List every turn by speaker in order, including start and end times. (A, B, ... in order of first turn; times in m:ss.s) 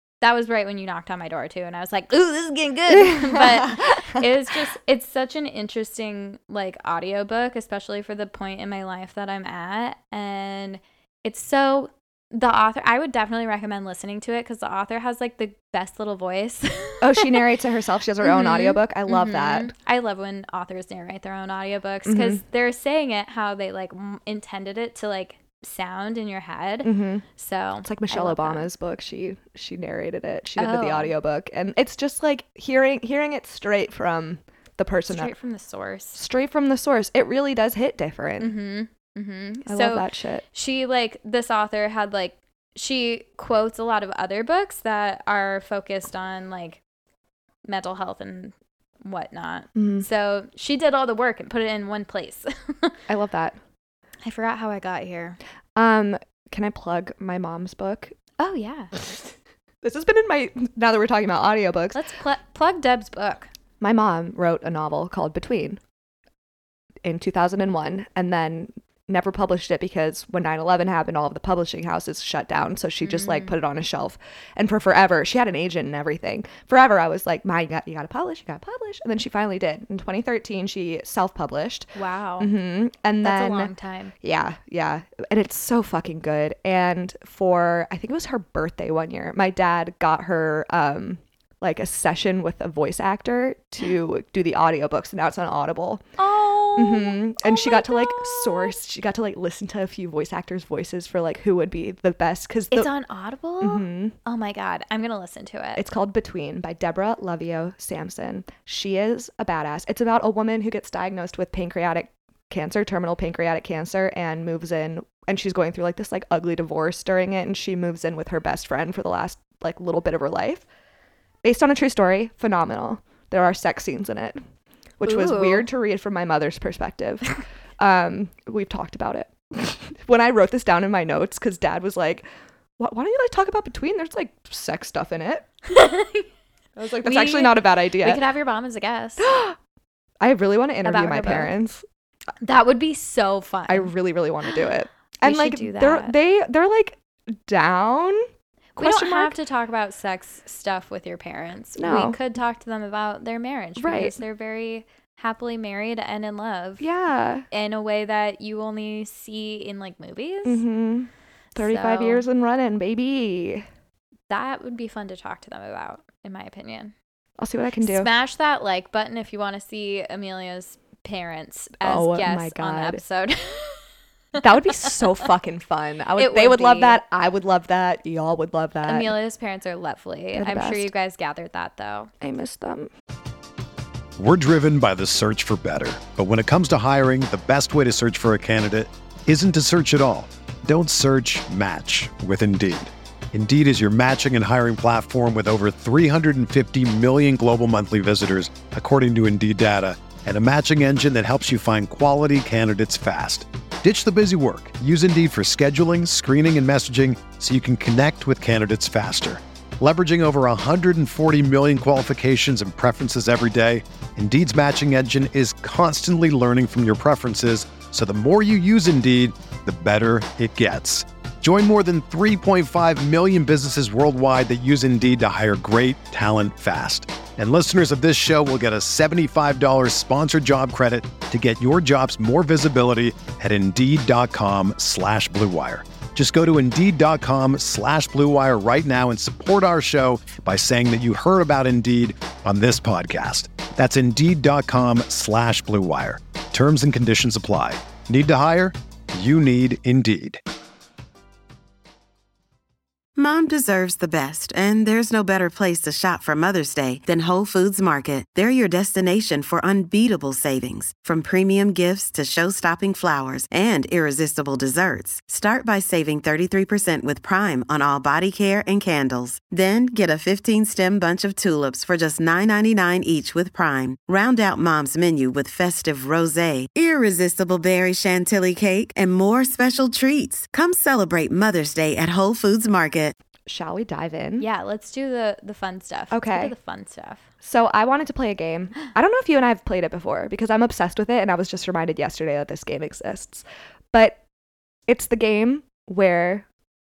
0:00.2-0:17.4 A
0:02.9-0:04.3 B
0:17.0-0:19.7 B
0:18.2-0:28.7 A
0:22.1-0:22.4 B
0:26.8-0:27.2 B
0:27.8-0:35.3 B
0:30.6-0:31.1 A
0:35.1-0:36.2 A
0:36.2-0:38.5 B
0:38.4-0:46.8 A
0:39.7-0:40.4 B
0:47.6-0:53.0 A
0:49.8-0:50.0 B
0:53.1-0:53.6 B
0:54.2-0:55.4 A
0:55.8-0:58.2 B
0:58.4-0:59.1 A
0:59.8-1:02.0 B
1:01.9-1:03.5 A
1:03.8-1:05.8 B
1:07.0-1:36.0 B
1:13.0-1:13.6 A
1:22.0-1:22.5 A
1:23.2-1:24.1 A
1:36.2-1:38.8 A
1:36.8-1:42.9 B
1:42.7-1:45.8 A
1:43.6-1:44.2 B
1:45.8-2:00.6 B
2:01.4-2:04.4 B
2:05.0-2:07.2 B
2:05.0-2:05.7 A
2:07.8-2:12.3 B
2:12.8-2:15.5 B
2:15.7-2:16.3 A
2:16.8-2:18.2 B
2:17.0-2:19.3 A
2:19.2-2:19.6 B
2:20.2-2:21.8 B
2:20.8-2:21.5 A
2:22.4-2:23.9 A
2:23.7-2:29.4 B
2:25.2-2:26.1 A
2:28.8-2:36.9 A
2:31.8-2:32.2 B
2:33.8-2:34.2 B
2:36.8-2:37.5 B
2:37.5-2:40.6 A
2:40.4-2:43.7 B
2:41.6-2:42.3 A
2:44.3-2:46.9 A
2:47.4-2:48.1 B
2:47.8-2:53.8 A
2:51.8-2:53.0 B
2:54.4-2:59.1 B
2:56.2-2:57.0 A
2:58.8-3:02.1 A
3:00.4-3:00.9 B
3:02.2-3:02.9 B
3:04.2-4:10.4 C
4:13.2-4:43.2 D
4:43.5-4:44.4 B
4:44.4-4:47.2 A
4:46.1-4:46.5 B
4:47.4-4:54.2 B
4:54.9-4:56.5 B